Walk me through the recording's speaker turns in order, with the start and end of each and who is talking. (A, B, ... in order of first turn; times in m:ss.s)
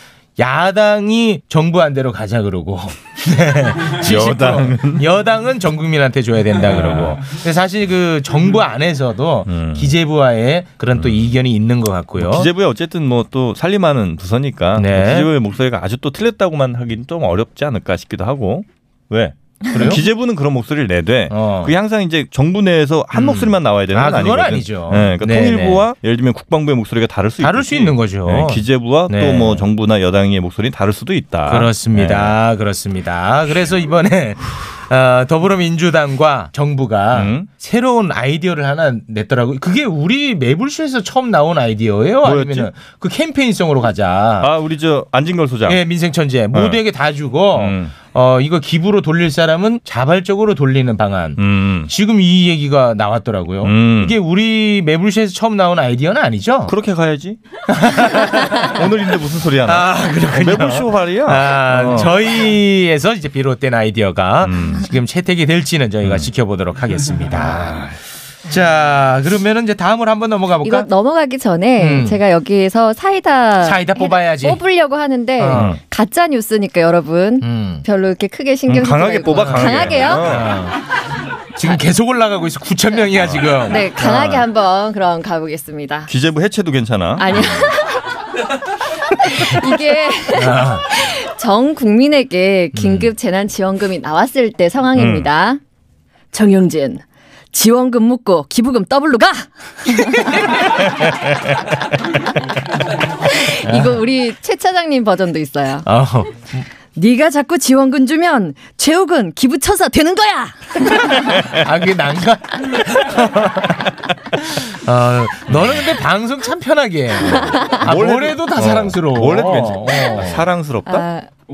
0:00.4-0:12.5 A
0:04.0-0:05.0 B
0:06.7-0:07.2 B
0:09.5-0:09.9 B
0:11.0-0:11.3 B
0:12.2-0:32.4 B
0:14.8-0:15.3 A
0:19.7-0:20.0 A
0:21.3-0:21.7 A
0:23.1-0:25.8 A
0:27.4-0:29.6 A
0:31.5-0:44.5 A
0:37.1-0:37.5 B
0:42.2-0:42.7 B
0:44.4-0:45.8 B
0:45.6-0:56.7 A
0:46.5-0:46.8 B
0:47.5-0:47.9 B
0:51.4-0:51.9 B
0:53.6-0:54.2 B
0:56.6-0:57.4 B
0:57.7-0:58.8 A
0:58.4-1:02.2 B
0:59.6-1:07.9 A
1:04.4-1:04.9 B
1:06.0-1:06.3 B
1:07.3-1:08.0 B
1:08.5-1:10.9 A
1:10.6-1:20.3 C
1:11.8-1:12.2 A
1:13.6-1:14.6 A
1:15.4-1:15.7 A
1:15.5-1:15.8 B
1:17.4-1:17.8 A
1:18.6-1:20.5 B
1:19.4-1:20.8 A
1:21.5-1:24.2 A
1:23.6-1:26.1 C
1:24.0-1:24.4 B
1:26.1-1:27.7 B
1:27.2-1:28.0 C
1:29.1-1:35.6 C
1:30.3-1:30.8 A
1:32.7-1:33.1 A
1:34.9-1:35.3 B
1:36.3-1:40.4 C
1:43.2-1:45.8 C
1:45.8-1:46.7 A
1:46.9-1:51.1 C
1:51.2-1:53.8 A
1:54.3-2:00.4 A
1:55.5-1:55.8 B
1:57.2-2:01.0 B
2:00.9-2:01.3 C